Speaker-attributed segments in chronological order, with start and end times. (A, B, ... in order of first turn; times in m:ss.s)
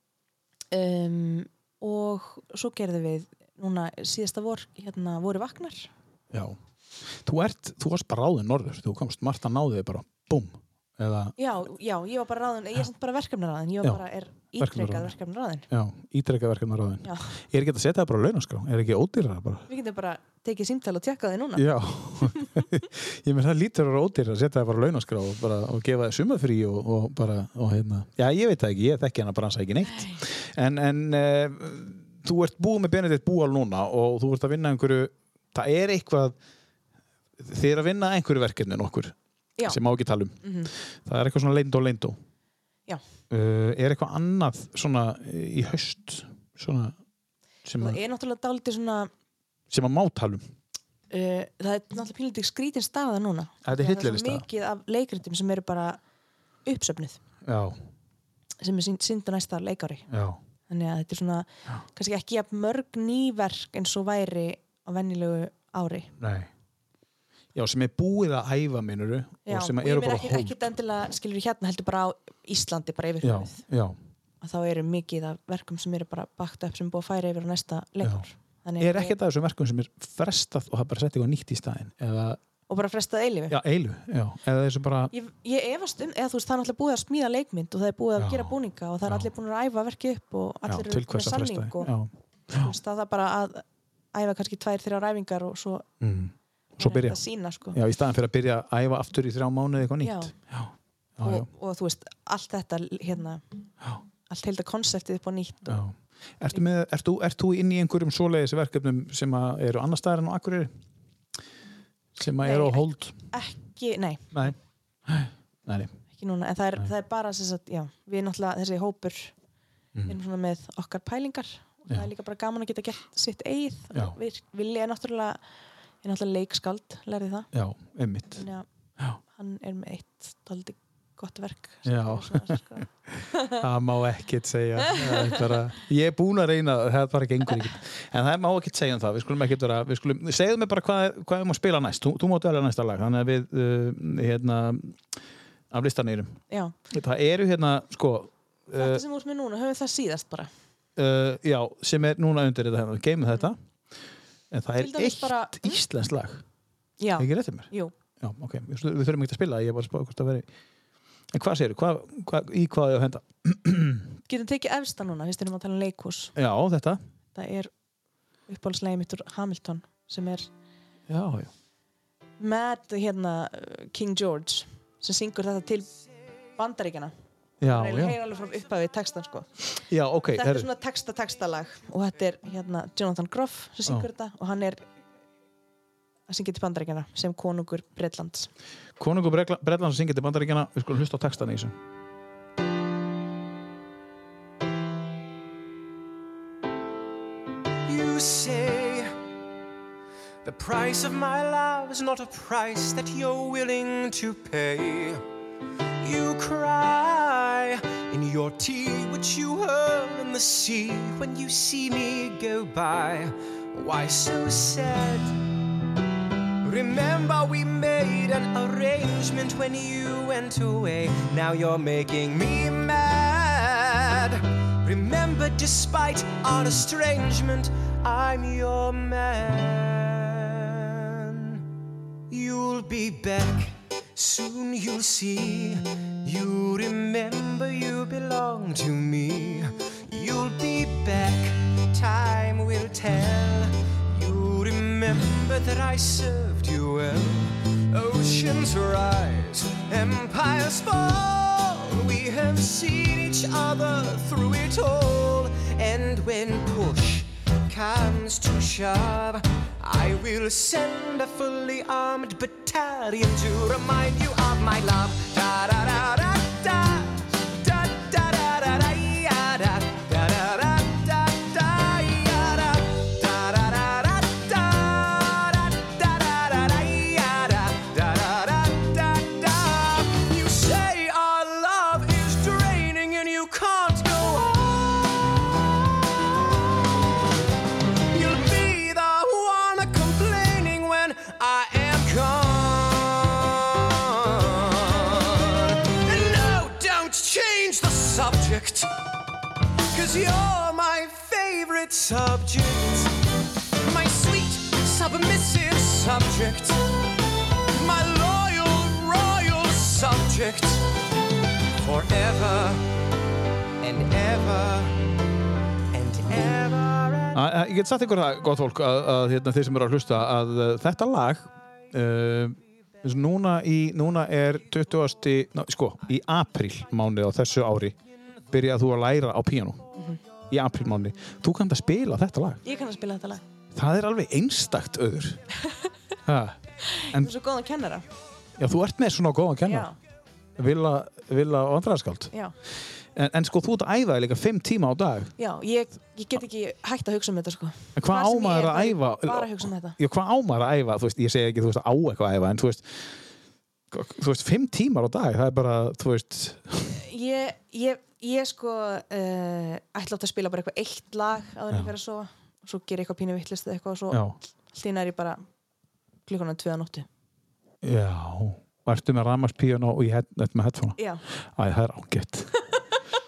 0:00.7-0:05.9 A
0:06.3-0:06.6 B
0:07.1-0:11.4 B
0:11.4-0:15.7 A
0:14.6-0:15.1 B
0:15.7-0:19.6 B
0:19.7-0:21.7 A
0:21.6-0:36.3 B
0:29.9-0:30.2 A
0:37.4-0:40.4 B
0:40.4-0:40.7 A
0:41.0-0:42.2 B
0:43.3-0:47.0 B
0:47.6-0:48.0 B
0:47.8-0:49.1 A
0:49.7-0:50.5 B
0:51.1-0:56.0 A
0:53.6-0:54.4 B
0:56.6-0:57.2 A
0:57.4-0:57.8 B
0:58.6-1:00.1 A
1:00.1-1:00.4 B
1:00.7-1:06.1 A
1:06.2-1:06.5 B
1:07.5-1:10.6 B
1:09.4-1:13.6 A
1:13.2-1:14.0 B
1:14.4-1:19.1 A
1:18.8-1:22.4 B
1:22.7-1:23.6 A
1:23.5-1:25.1 B
1:25.1-1:31.9 A
1:28.2-1:28.5 B
1:30.7-1:32.7 B
1:32.5-1:35.9 A
1:36.0-1:41.5 B
1:36.8-1:37.8 A
1:40.0-1:40.3 A
1:41.2-1:43.4 A
1:44.3-1:45.8 A
1:45.7-1:50.7 B
1:52.1-1:53.2 B
1:52.4-1:54.3 A
1:54.3-1:55.9 B
1:56.1-1:59.3 A
2:00.1-2:05.4 A
2:06.0-2:07.5 A
2:07.5-2:08.4 B
2:08.4-2:08.6 A
2:09.3-2:13.6 A
2:11.8-2:25.1 B
2:14.8-2:15.4 A
2:25.7-2:29.0 B
2:26.5-2:26.7 A
2:28.8-2:30.5 A
2:31.0-2:33.6 B
2:34.5-2:36.4 B
2:34.8-2:35.8 A
2:37.0-2:37.9 A
2:37.2-2:37.7 B
2:38.2-2:40.5 B
2:41.3-2:44.2 B
2:44.3-2:46.3 A
2:46.4-2:47.0 B
2:47.3-2:47.7 A
2:48.5-2:50.5 A
2:51.1-2:51.5 B
2:52.4-2:55.9 A
2:56.6-2:59.5 A
2:57.6-2:58.2 B
2:59.9-3:00.7 B
3:00.3-3:04.8 A
3:06.3-3:08.5 A
3:09.0-3:11.8 B
3:17.8-3:19.1 C
3:20.4-3:25.2 C
3:26.0-3:35.4 C
3:36.6-3:51.6 C
3:52.3-4:45.4 C
4:48.1-4:58.9 C
4:59.9-5:03.1 C
5:03.8-5:06.9 C
5:07.7-5:10.9 C
5:11.8-5:12.8 C
5:13.8-5:15.1 C
5:15.9-5:17.4 C
5:17.3-5:28.0 B
5:28.5-5:29.9 B
5:29.9-5:30.2 A
5:30.5-5:32.6 B
5:32.6-5:33.4 A
5:33.7-5:35.4 B
5:35.6-5:35.9 A
5:36.2-5:37.3 B
5:36.8-5:38.0 A
5:38.6-5:39.9 B
5:39.6-5:40.0 A
5:40.6-5:42.3 B
5:43.1-5:45.3 B
5:45.4-5:50.0 A
5:48.0-5:53.1 B
5:53.9-5:57.0 B
5:56.9-6:05.4 A
6:04.1-6:04.4 B
6:06.2-6:07.1 A
6:07.8-6:12.6 B
6:11.0-6:11.2 A